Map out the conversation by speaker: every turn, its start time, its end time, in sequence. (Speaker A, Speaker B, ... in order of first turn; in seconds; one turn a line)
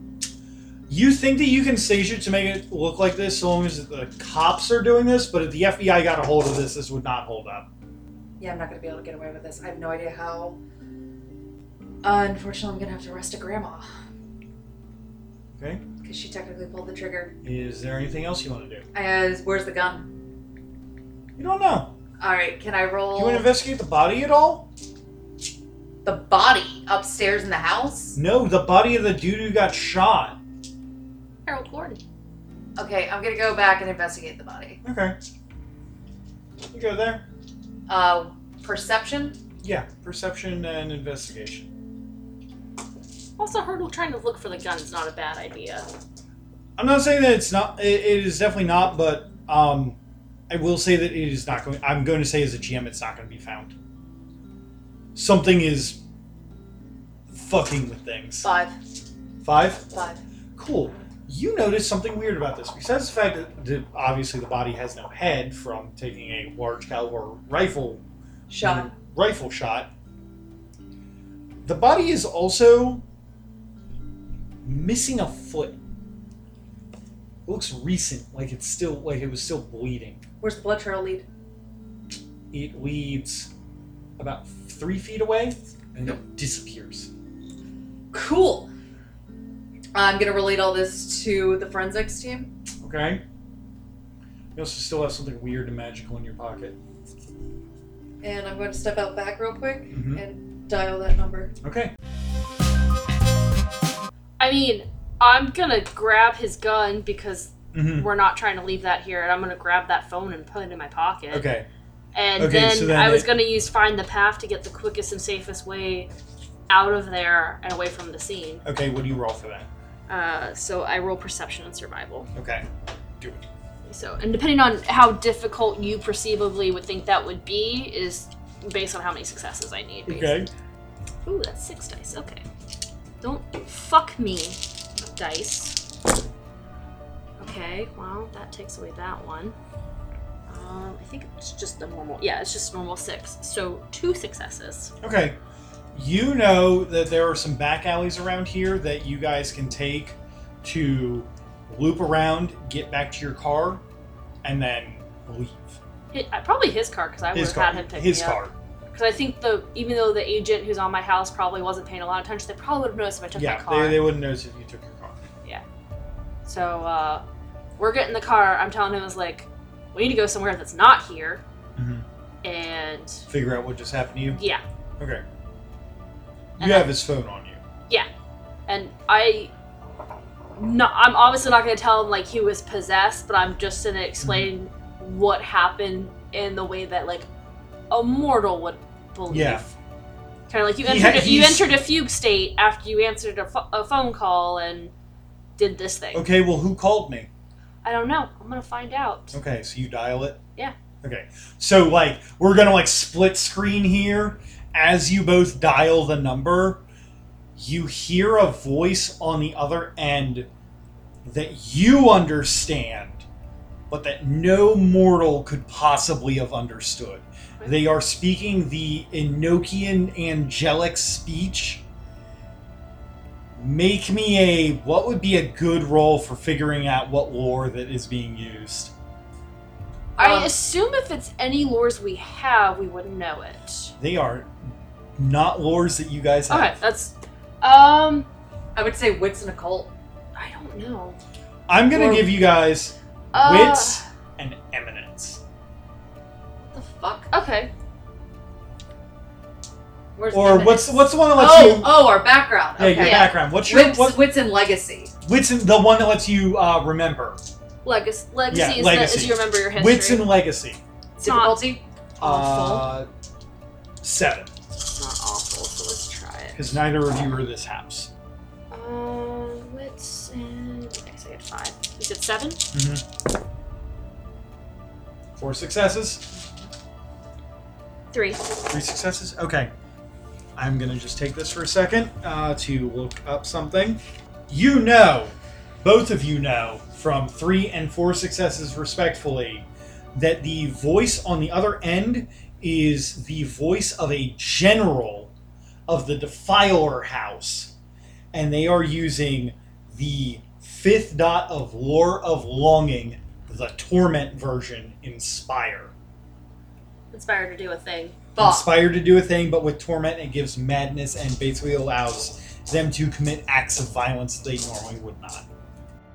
Speaker A: 0.9-7.7
Speaker B: 8.4-10.6
Speaker B: 12.0-13.9
Speaker A: 15.6-15.8
Speaker B: 16.0-17.3
Speaker A: 17.4-18.8
Speaker B: 18.9-20.1
Speaker A: 21.4-21.9
Speaker B: 22.2-23.5
Speaker A: 23.1-24.7
Speaker B: 26.0-28.2
Speaker A: 28.1-30.4
Speaker C: 31.4-32.0
Speaker B: 32.8-34.8
Speaker A: 34.8-35.1
Speaker A: 36.7-37.2
Speaker B: 37.9-39.4
Speaker A: 39.6-41.7
Speaker C: 43.4-45.9
Speaker A: 46.8-50.0
Speaker A: 50.5-53.7
Speaker A: 55.1-56.0
Speaker A: 57.3-58.5
Speaker B: 58.4-58.7
Speaker A: 59.4-59.9
Speaker B: 59.9-60.2
Speaker A: 60.5-68.0
Speaker B: 68.5-68.9
Speaker A: 68.6-69.9
Speaker A: 71.6-73.0
Speaker A: 74.6-75.8
Speaker A: 77.5-80.2
Speaker B: 80.4-81.2
Speaker A: 82.5-83.5
Speaker A: 84.2-87.1
Speaker B: 88.1-88.7
Speaker B: 89.9-92.5
Speaker A: 92.8-93.2
Speaker A: 94.5-96.8
Speaker B: 98.2-101.5
Speaker A: 99.9-100.2
Speaker A: 101.6-101.9
Speaker C: 104.4-111.5
Speaker A: 107.7-108.1
Speaker A: 111.3-111.7
Speaker C: 112.1-116.1
Speaker A: 112.4-113.3
Speaker C: 116.7-118.6
Speaker A: 118.6-119.7
Speaker C: 120.1-122.3
Speaker A: 122.3-122.6
Speaker C: 123.8-130.4
Speaker A: 130.1-130.5
Speaker C: 131.2-132.4
Speaker C: 133.2-135.8
Speaker C: 137.4-139.5
Speaker C: 140.5-144.9
Speaker A: 145.0-145.3
Speaker A: 145.9-153.8
Speaker A: 154.4-155.8
Speaker C: 156.1-164.1
Speaker A: 157.3-158.5
Speaker A: 163.3-165.2
Speaker C: 166.4-167.2
Speaker C: 167.8-171.4
Speaker A: 171.8-172.0
Speaker C: 172.4-173.2
Speaker A: 173.3-174.4
Speaker C: 174.3-174.6
Speaker A: 176.6-177.6
Speaker C: 176.6-176.9
Speaker C: 178.7-179.5
Speaker C: 180.6-187.3
Speaker A: 184.2-184.5
Speaker C: 187.9-189.7
Speaker A: 189.3-189.6
Speaker C: 190.5-194.9
Speaker A: 190.8-191.7
Speaker C: 195.6-196.2
Speaker A: 196.1-197.3
Speaker C: 197.8-199.3
Speaker A: 199.3-200.4
Speaker A: 201.0-206.8
Speaker A: 207.6-210.5
Speaker A: 211.2-213.2
Speaker A: 213.9-221.8
Speaker A: 223.6-228.9
Speaker B: 230.2-230.5
Speaker C: 230.2-233.9
Speaker A: 234.0-234.5
Speaker A: 235.2-236.8
Speaker C: 236.5-238.3
Speaker B: 238.7-239.9
Speaker C: 240.3-241.2
Speaker A: 241.7-245.4
Speaker B: 241.9-242.3
Speaker C: 243.3-244.0
Speaker B: 246.7-247.3
Speaker C: 247.3-247.7
Speaker B: 250.2-255.1
Speaker A: 250.3-252.2
Speaker A: 252.8-254.2
Speaker C: 252.9-253.4
Speaker A: 255.2-257.4
Speaker C: 257.8-260.3
Speaker A: 258.5-260.8
Speaker C: 261.2-261.8
Speaker B: 261.2-262.8
Speaker A: 262.2-263.1
Speaker C: 262.4-262.8
Speaker A: 264.0-264.5
Speaker C: 264.9-266.7
Speaker A: 266.5-268.1
Speaker C: 268.7-272.6
Speaker A: 272.7-273.0
Speaker A: 275.4-276.3
Speaker B: 276.4-276.6
Speaker C: 278.1-278.7
Speaker A: 278.7-279.7
Speaker A: 280.6-295.3
Speaker A: 295.9-297.7
Speaker A: 298.3-305.9
Speaker C: 307.1-308.1
Speaker B: 308.4-308.7
Speaker A: 308.4-315.4